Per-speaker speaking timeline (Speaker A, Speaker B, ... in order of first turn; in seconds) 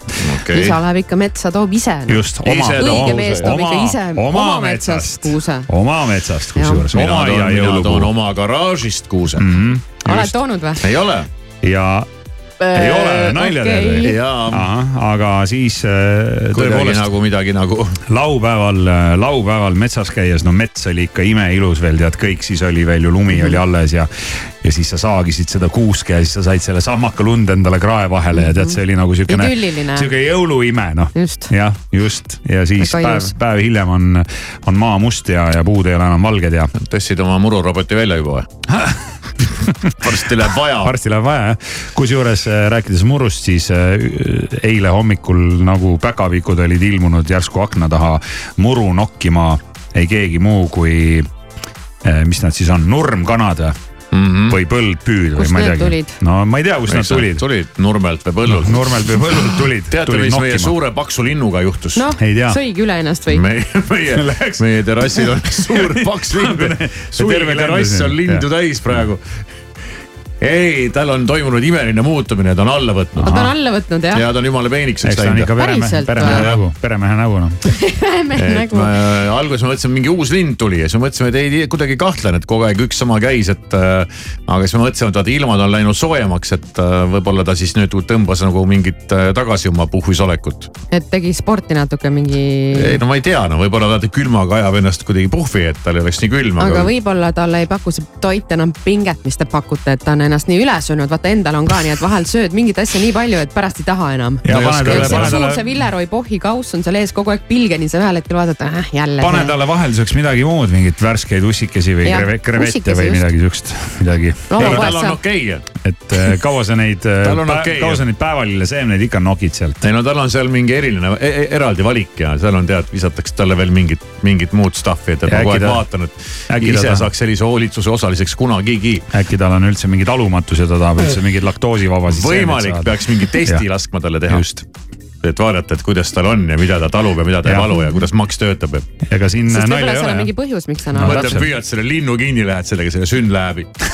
Speaker A: 0.2-0.8, 2.4-3.5, 6.9-9.4, 10.8-11.2, 14.0-14.7, 16.5-18.0, 36.8-38.5, 40.0-40.9, 54.1-54.6, 56.9-59.2, 59.9-62.0, 63.3-69.2, 70.4-73.4, 74.1-75.5, 76.2-76.6, 78.4-90.7, 92.7-96.9, 104.5-105.4, 114.6-115.6, 117.2-118.0, 119.8-129.0, 132.1-134.6, 135.2-138.8, 141.0-143.7
Speaker B: 0.5-5.7, 6.5-6.9, 10.0-10.8, 12.6-14.2, 28.3-28.8, 29.3-30.1, 31.1-31.5, 32.8-33.3, 55.4-56.1, 62.0-63.4, 73.2-74.2, 75.6-76.5, 77.7-78.9, 90.9-93.0, 96.6-109.5, 112.0-113.2, 114.5-115.2, 139.5-141.4
Speaker C: 2.1-8.1, 9.4-10.2, 11.6-12.1, 12.7-17.1, 18.1-36.7, 38.7-39.0, 40.8-51.3, 52.0-53.8, 54.5-57.4, 58.5-60.7, 62.2-62.6, 64.1-64.6, 65.6-68.4, 73.2-73.5, 75.0-77.6, 104.4-105.6, 109.2-114.9, 115.8-119.8, 125.3-125.8, 126.5-127.1, 129.1-132.9, 137.4-137.7, 139.1-140.3, 140.9-141.5